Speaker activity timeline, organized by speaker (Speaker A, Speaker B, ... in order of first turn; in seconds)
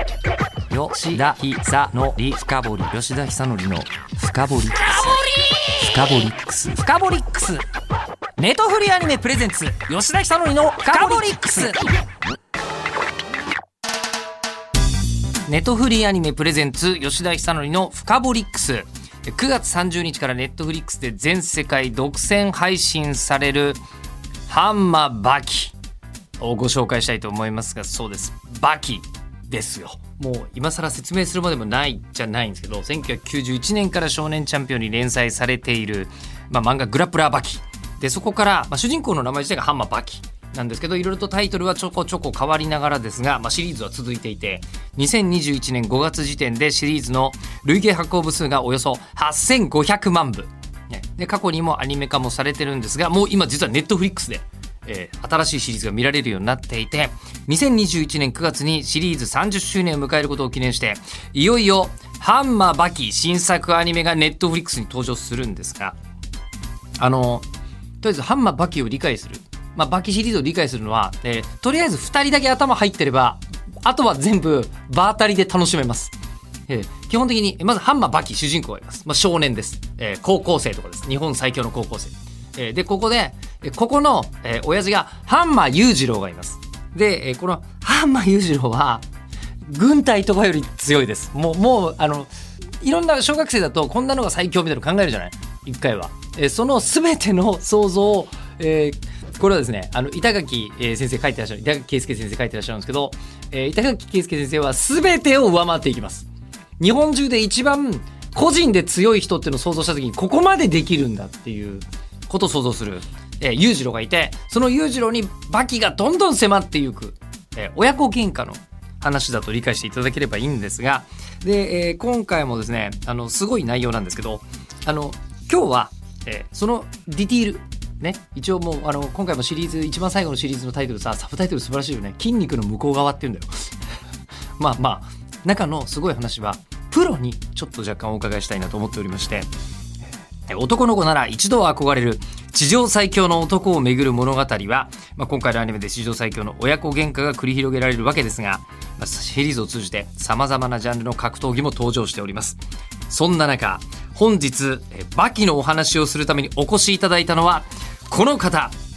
Speaker A: 0.7-7.6, 8.4-11.9, 15.5-23.8, 24.5-25.7, 26.4-66.0, 67.0-67.5, 68.0-76.1, 76.7-89.0, 89.7-106.3, 106.8-133.7, 134.6-139.5, 140.5-158.8